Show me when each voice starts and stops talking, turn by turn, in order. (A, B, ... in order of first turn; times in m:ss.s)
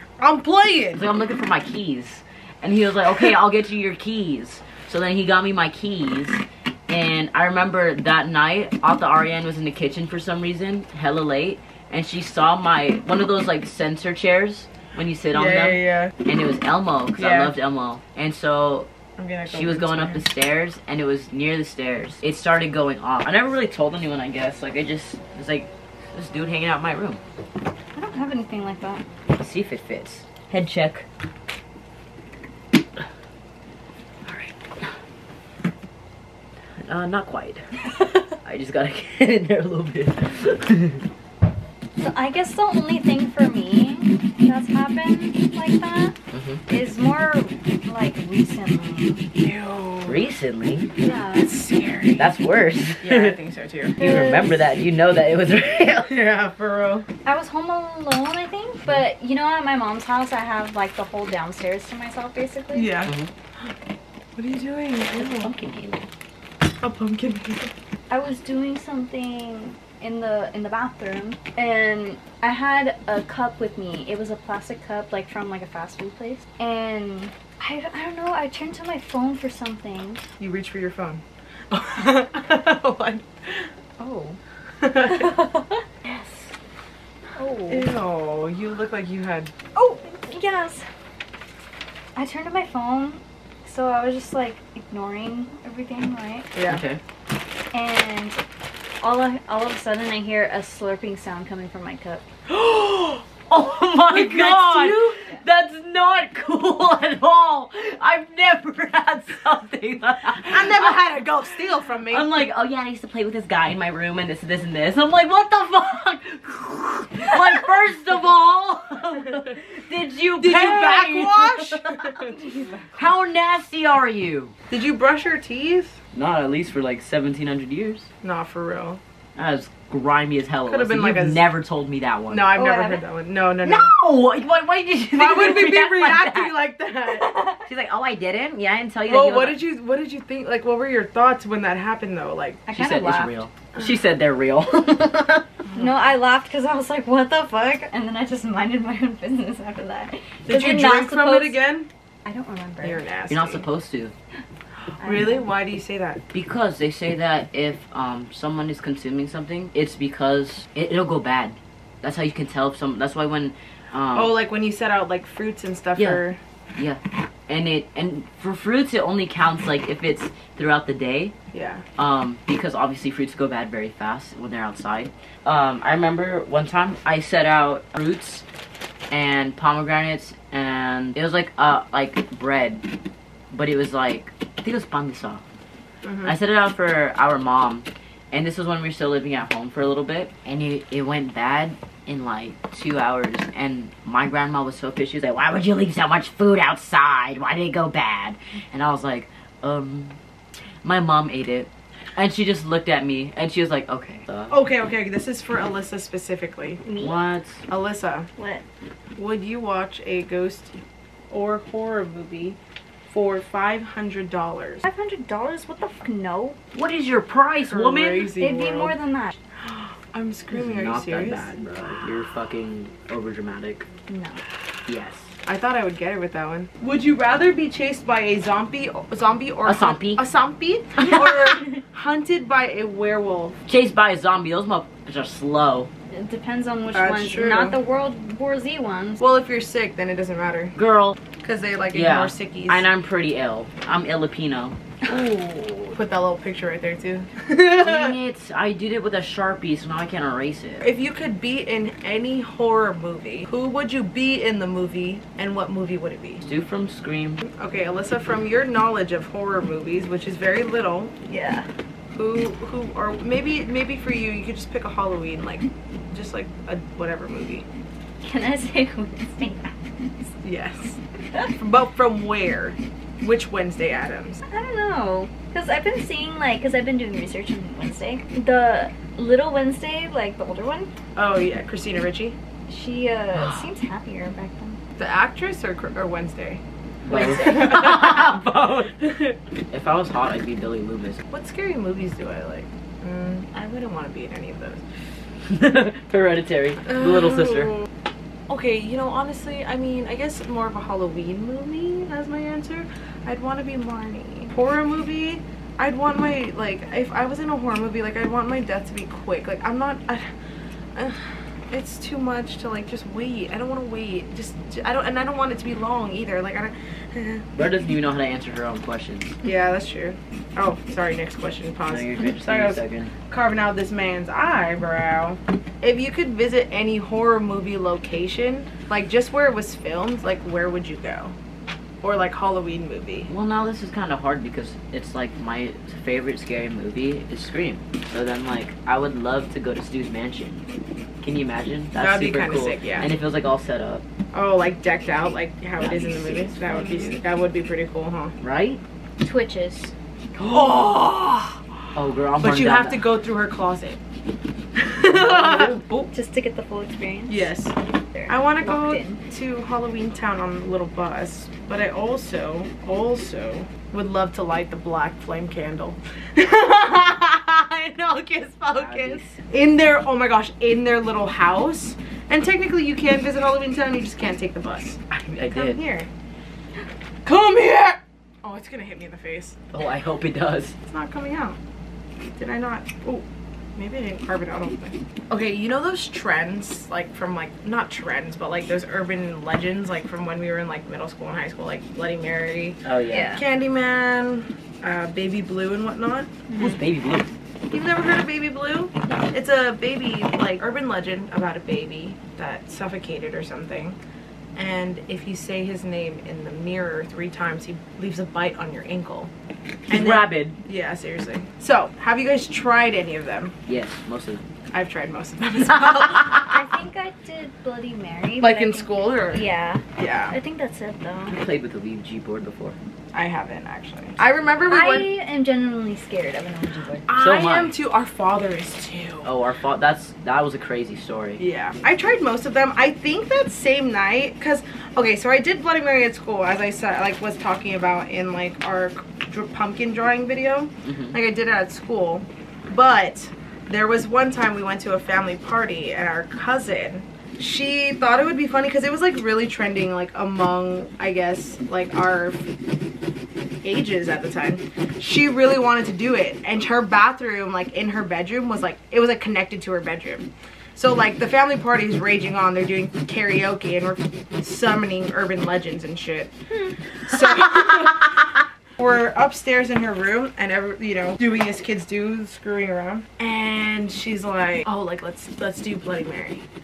0:00.2-0:01.1 A
0:00.9-0:18.9 B
0:15.3-0:16.2 A
0:17.2-0:17.5 A
0:19.2-0:20.2 A
0:19.5-0:27.2 B
0:27.9-0:29.0 C
0:29.4-0:31.0 B
0:34.3-0:34.6 B
0:36.8-0:37.7 B
0:38.4-0:41.0 B
0:42.0-0:46.2 C
0:46.3-0:46.6 B
0:46.7-0:49.2 C
0:49.4-0:50.2 A
0:50.1-0:50.9 B
0:51.0-0:51.5 C
0:51.3-0:52.3 A
0:52.2-0:53.4 B
0:53.0-0:54.0 A
0:54.0-0:54.7 C
0:54.0-0:56.2 B
0:56.0-0:57.1 A
0:57.2-1:02.9 C
1:02.7-1:03.1 A
1:04.4-1:05.5 A
1:05.1-1:06.1 B
1:06.8-1:07.7 A
1:08.1-1:20.2 C
1:20.4-1:23.7 A
1:24.0-1:24.4 C
1:24.8-1:25.3 A
1:24.9-1:25.8 C
1:27.4-1:27.9 C
1:27.7-1:30.0 A
1:30.0-1:30.9 C
1:32.2-1:36.5 C
1:36.5-1:36.8 A
1:36.7-1:37.0 B
1:37.7-1:38.4 C
1:39.0-1:42.2 C
1:42.5-1:43.2 A
1:43.5-1:51.0 B
1:44.1-1:45.2 A
1:50.4-1:52.3 A
1:52.1-2:02.2 B
2:00.4-2:02.4 A
2:02.9-2:04.5 B
2:04.7-2:06.0 A
2:06.1-2:08.1 B
2:08.2-2:09.0 A
2:09.4-2:12.6 B
2:10.7-2:11.5 A
2:12.3-2:13.9 A
2:12.6-2:13.0 C
2:13.6-2:16.6 B
2:15.1-2:17.4 A
2:17.1-2:17.6 C
2:17.7-2:19.6 B
2:19.1-2:22.6 A
2:22.7-2:23.3 C
2:22.7-2:25.5 B
2:25.7-2:31.6 C
2:30.5-2:31.9 A
2:32.2-2:33.0 C
2:32.8-2:33.6 A
2:33.3-2:34.1 B
2:35.0-2:35.4 C
2:35.0-2:36.2 A
2:36.3-2:44.4 B
2:44.2-2:46.4 A
2:46.0-2:46.2 B
2:46.8-2:51.3 B
2:51.5-2:51.8 A
2:52.0-2:58.4 B
2:59.1-3:02.8 B
3:03.5-3:05.4 B
3:06.0-3:06.3 A
3:06.2-3:20.2 B
3:20.8-3:24.5 B
3:24.5-3:26.8 A
3:26.8-3:27.2 C
3:27.0-3:27.6 B
3:27.7-3:28.3 A
3:28.4-3:28.6 C
3:29.2-3:30.8 A
3:31.3-3:32.6 A
3:33.1-3:34.8 A
3:34.8-3:36.6 C
3:36.7-3:38.3 B
3:37.6-3:39.0 A
3:38.4-3:39.4 C
3:39.6-3:41.5 A
3:40.5-3:43.9 B
3:44.1-3:44.4 C
3:44.9-3:45.3 B
3:45.4-3:53.6 A
3:49.6-3:50.2 B
3:53.7-3:55.9 B
3:56.1-3:59.2 C
3:56.9-3:57.8 A
3:59.2-4:00.8 A
4:00.8-4:01.2 B
4:01.4-4:02.8 A
4:01.9-4:06.0 B
4:06.0-4:08.2 A
4:07.8-4:10.9 B
4:10.8-4:16.5 A
4:16.4-4:17.4 B
4:17.5-4:21.1 A
4:21.3-4:21.7 C
4:22.1-4:27.7 A
4:28.2-4:30.3 C
4:30.4-4:31.0 A
4:31.5-4:34.4 A
4:34.5-4:40.9 C
4:41.2-4:42.4 A
4:42.7-4:44.8 C
4:45.0-4:48.3 A
4:47.1-4:49.0 B
4:47.2-4:47.7 C
4:49.0-4:49.4 A
4:49.7-4:51.2 B
4:51.3-4:54.8 A
4:55.5-4:57.8 B
4:56.9-4:57.7 A
4:58.5-5:10.3 A
5:11.0-5:17.4 A
5:17.6-5:19.4 B
5:19.4-5:31.3 A
5:21.9-5:23.1 B
5:32.0-5:33.3 A
5:33.3-5:40.6 B
5:41.2-5:44.0 B
5:42.0-5:43.1 A
5:44.3-5:48.3 A
5:45.8-5:47.2 B
5:48.4-5:48.8 B
5:49.2-5:49.9 C
5:50.4-5:51.6 A
5:52.0-5:53.0 B
5:52.4-5:54.0 A
5:54.8-5:56.1 A
5:55.1-5:55.8 B
5:56.1-5:57.5 C
5:57.3-5:57.7 A
5:58.1-5:59.2 C
5:58.3-6:15.0 A
6:08.8-6:09.4 B
6:15.1-6:15.8 B
6:15.5-6:16.1 A
6:17.2-6:19.6 A
6:19.7-6:20.8 B
6:20.9-6:21.6 A
6:22.4-6:23.2 A
6:23.8-6:32.8 A
6:32.8-6:33.3 B
6:33.1-6:33.4 C
6:33.3-6:36.4 A
6:36.5-6:36.8 C
6:36.6-6:37.3 B
6:37.7-6:44.0 A
6:44.6-6:49.3 A
6:49.9-6:53.5 A
6:49.9-6:50.6 B
6:53.7-6:54.4 B
6:54.7-6:56.5 A
6:56.4-7:01.4 C
6:58.4-6:59.4 A
7:00.0-7:00.3 A
7:01.3-7:02.8 B
7:03.1-7:05.1 A
7:04.7-7:07.1 C
7:07.1-7:09.3 A
7:07.1-7:07.8 B
7:09.2-7:11.4 B
7:11.4-7:32.4 A
7:20.8-7:21.2 B
7:33.6-7:46.3 A
7:47.1-7:56.4 A